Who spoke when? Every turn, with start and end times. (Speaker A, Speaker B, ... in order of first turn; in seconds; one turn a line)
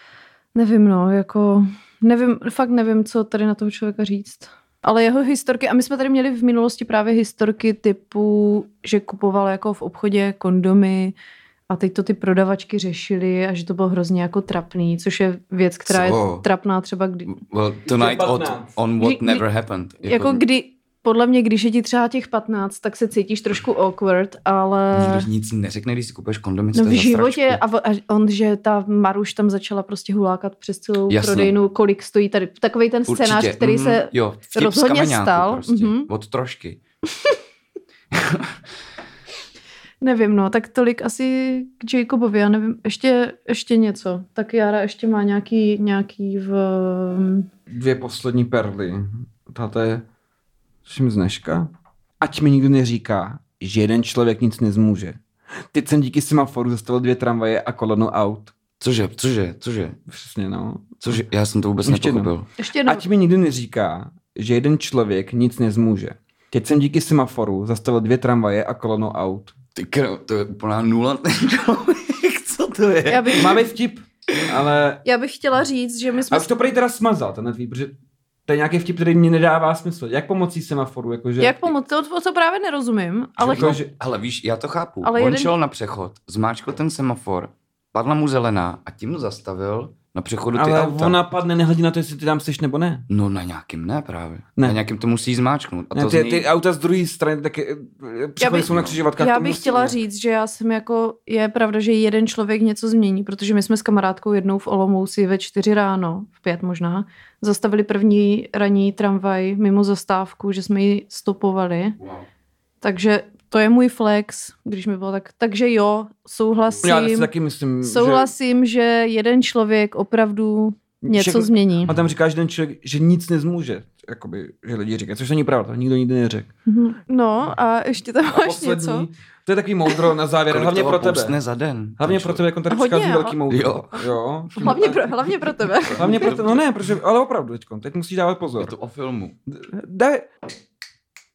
Speaker A: 0.5-11.1
Speaker A: 11.7-17.3
Speaker B: 15.8-16.4
Speaker B: 17.3-20.4
Speaker C: 17.9-18.7
Speaker A: 19.0-19.4
Speaker A: 20.0-25.3
Speaker B: 24.9-27.6
Speaker A: 26.7-36.1
Speaker B: 31.1-31.5
Speaker B: 33.1-36.8
Speaker B: 38.1-38.6
Speaker A: 40.0-47.5
Speaker C: 47.7-50.0
Speaker C: 50.9-51.7
Speaker C: 52.2-55.2
Speaker C: 55.7-58.5
Speaker B: 58.8-60.0
Speaker C: 60.1-61.2
Speaker B: 61.0-62.5
Speaker C: 61.8-62.3
Speaker A: 62.6-63.0
Speaker C: 62.8-69.5
Speaker B: 69.7-73.6
Speaker A: 73.1-73.6
Speaker C: 73.4-75.0
Speaker A: 75.0-76.5
Speaker C: 76.3-77.9
Speaker C: 78.5-81.7
Speaker A: 81.4-83.8
Speaker C: 83.4-83.9
Speaker B: 83.4-91.2
Speaker A: 85.0-85.5
Speaker C: 90.5-93.0
Speaker B: 93.1-96.5
Speaker C: 95.9-100.0
Speaker A: 98.4-112.0
Speaker B: 98.6-99.0
Speaker A: 112.8-117.3
Speaker C: 116.8-118.3
Speaker A: 117.8-121.9
Speaker C: 121.0-126.5
Speaker A: 126.7-129.1
Speaker C: 128.2-131.4
Speaker B: 130.5-132.4
Speaker C: 132.0-135.3
Speaker A: 132.7-133.4
Speaker B: 133.5-133.9
Speaker A: 133.9-136.3
Speaker B: 135.9-136.6
Speaker C: 136.0-138.7
Speaker B: 138.6-139.4
Speaker C: 139.5-140.3